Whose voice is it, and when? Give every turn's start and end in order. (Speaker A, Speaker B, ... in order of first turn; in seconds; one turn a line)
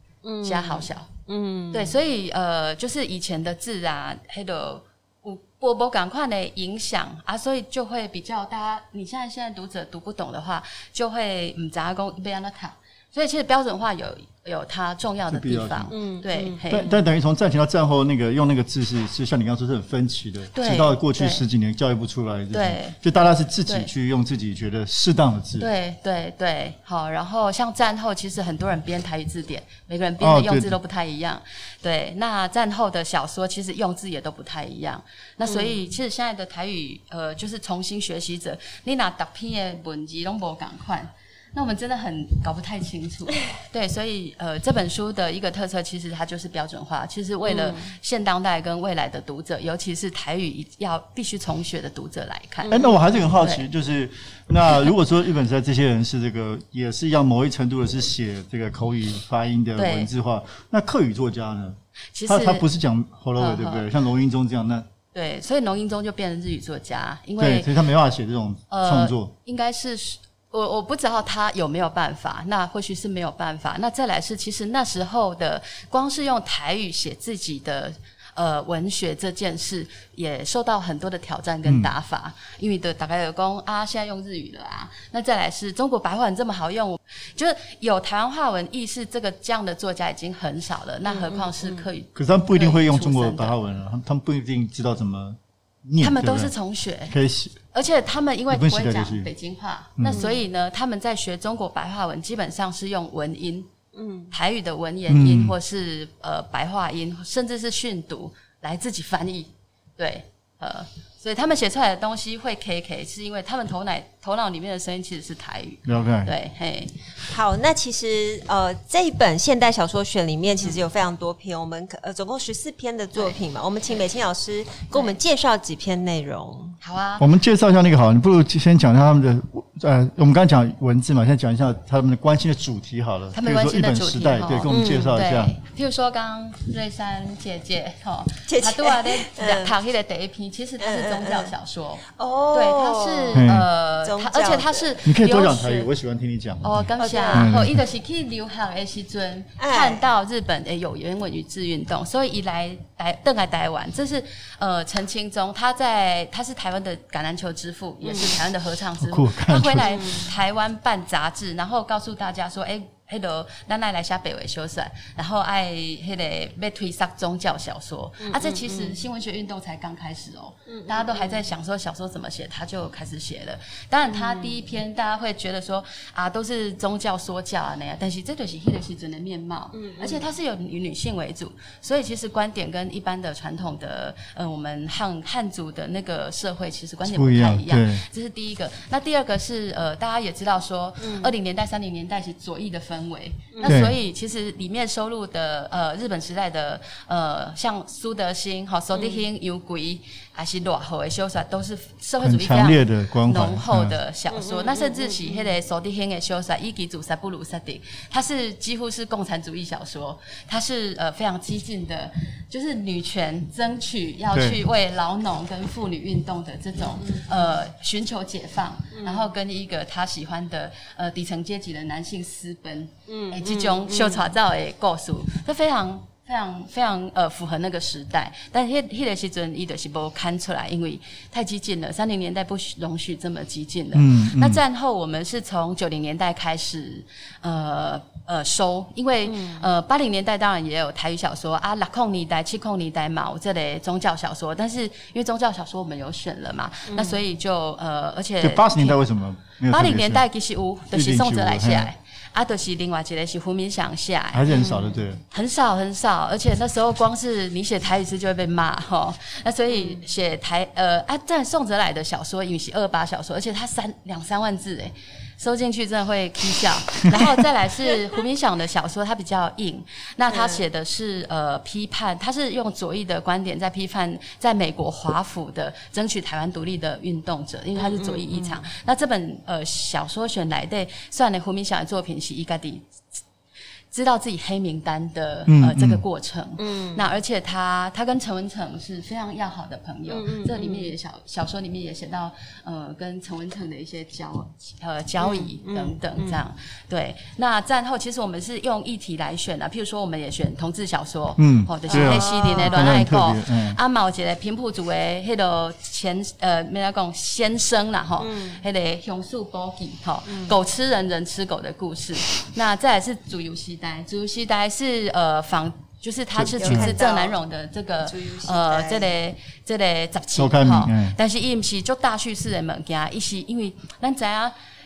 Speaker A: 0.2-2.0
Speaker B: 0.4-1.1
Speaker B: 1.7-16.9
Speaker C: 15.3-15.9
Speaker A: 15.9-17.0
Speaker C: 16.7-25.7
Speaker B: 20.5-21.4
Speaker B: 22.5-23.0
Speaker B: 23.7-23.9
Speaker B: 25.6-53.6
Speaker C: 30.2-30.8
Speaker A: 35.5-35.8
Speaker A: 47.4-47.9
Speaker A: 52.6-53.0
Speaker C: 52.7-64.9
Speaker B: 59.8-60.1
Speaker B: 62.1-62.7
Speaker B: 63.4-63.9
Speaker B: 65.1-67.7
Speaker C: 67.4-69.3
Speaker B: 68.7-93.6
Speaker C: 81.7-81.9
Speaker A: 91.1-91.9
Speaker C: 92.2-96.5
Speaker B: 96.0-97.2
Speaker C: 97.1-97.6
Speaker B: 97.7-103.7
Speaker C: 98.5-99.3
Speaker C: 100.0-100.3
Speaker A: 100.1-100.4
Speaker A: 103.9-104.3
Speaker B: 104.3-117.0
Speaker C: 105.1-105.6
Speaker C: 115.9-116.3
Speaker A: 117.3-126.8
Speaker B: 124.9-125.2
Speaker B: 126.8-127.3
Speaker C: 127.2-135.6
Speaker B: 133.3-145.9
Speaker A: 134.7-135.1
Speaker A: 138.5-139.8
Speaker A: 140.8-141.5
Speaker A: 142.2-145.0
Speaker C: 143.3-143.7
Speaker C: 145.1-147.8
Speaker B: 146.6-249.0
Speaker A: 147.0-147.6
Speaker A: 149.6-150.1
Speaker A: 158.0-158.4
Speaker C: 159.0-160.0
Speaker A: 159.8-160.3
Speaker A: 168.2-169.0
Speaker A: 170.7-171.4
Speaker A: 174.1-174.6
Speaker A: 179.7-180.3
Speaker C: 187.1-188.0
Speaker A: 191.0-191.3
Speaker C: 193.6-194.0
Speaker A: 198.9-199.2
Speaker C: 202.2-204.0
Speaker A: 204.3-205.5
Speaker C: 214.3-214.6
Speaker A: 218.9-219.3
Speaker A: 223.1-224.3
Speaker C: 233.9-234.6
Speaker A: 239.2-239.7
Speaker A: 246.9-247.2
Speaker C: 248.4-250.2
Speaker B: 249.7-254.5
Speaker C: 250.9-251.9
Speaker C: 254.3-255.2
Speaker A: 254.5-255.0
Speaker B: 255.3-282.9
Speaker A: 259.7-260.0
Speaker A: 270.3-270.6
Speaker A: 277.8-278.6
Speaker B: 283.9-324.5
Speaker C: 285.5-286.0
Speaker A: 286.6-287.1
Speaker A: 290.1-290.9
Speaker A: 295.2-296.4
Speaker C: 301.4-303.8
Speaker A: 301.9-302.9
Speaker A: 308.2-308.6
Speaker A: 310.3-310.6
Speaker C: 316.3-316.9
Speaker A: 316.6-317.4
Speaker A: 318.0-319.1
Speaker C: 320.4-321.1